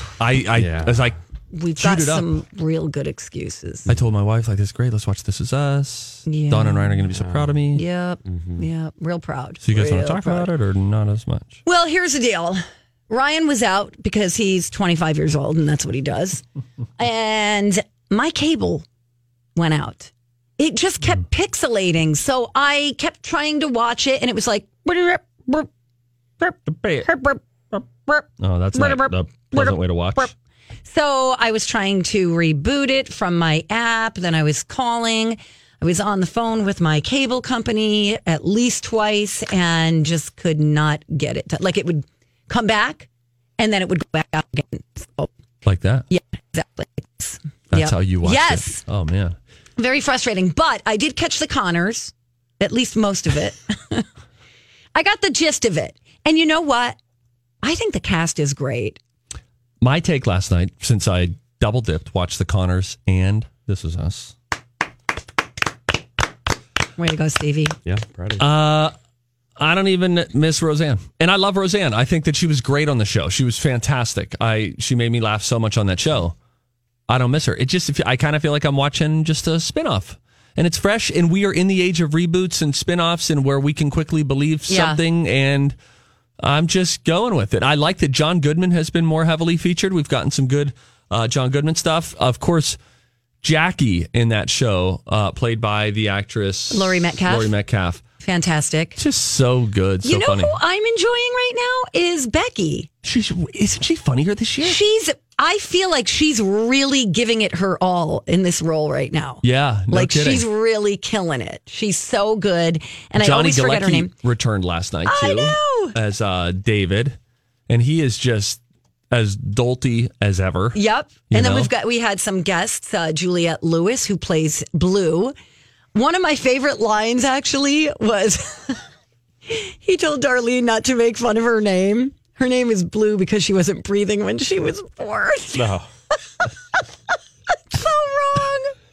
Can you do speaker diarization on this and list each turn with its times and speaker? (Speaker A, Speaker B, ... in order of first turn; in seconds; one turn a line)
Speaker A: 0.2-1.2
Speaker B: 0.6-1.1
Speaker C: 1.5-3.9
Speaker A: 1.8-2.4
Speaker A: 3.9-7.8
Speaker C: 6.3-7.1
Speaker B: 7.2-7.5
Speaker C: 7.7-10.5
Speaker B: 8.3-8.7
Speaker A: 9.6-11.6
Speaker C: 11.7-16.4
Speaker C: 17.0-18.9
Speaker C: 19.6-25.7
Speaker C: 26.4-30.3
Speaker A: 26.6-27.1
Speaker A: 28.4-30.3
Speaker C: 30.9-45.3
Speaker A: 45.6-46.1
Speaker C: 46.1-48.8
Speaker A: 47.7-49.4
Speaker C: 49.8-54.1
Speaker C: 55.0-57.0
Speaker C: 57.6-59.0
Speaker A: 59.8-64.3
Speaker C: 67.0-67.8
Speaker B: 67.8-68.4
Speaker A: 68.4-68.9
Speaker A: 69.6-76.3
Speaker A: 77.1-85.8
Speaker C: 84.7-85.0
Speaker A: 86.4-92.8
Speaker A: 93.4-98.0
Speaker C: 96.7-97.5
Speaker C: 98.2-99.0
Speaker A: 99.0-100.6
Speaker C: 100.0-102.9
Speaker A: 103.0-104.8
Speaker C: 104.6-114.1
Speaker A: 109.4-110.5
Speaker A: 113.1-117.2
Speaker C: 115.1-116.0
Speaker A: 117.7-120.8
Speaker C: 120.7-125.3
Speaker A: 121.3-121.7
Speaker C: 126.0-128.8
Speaker C: 129.5-135.7
Speaker B: 135.6-135.8
Speaker C: 137.7-138.7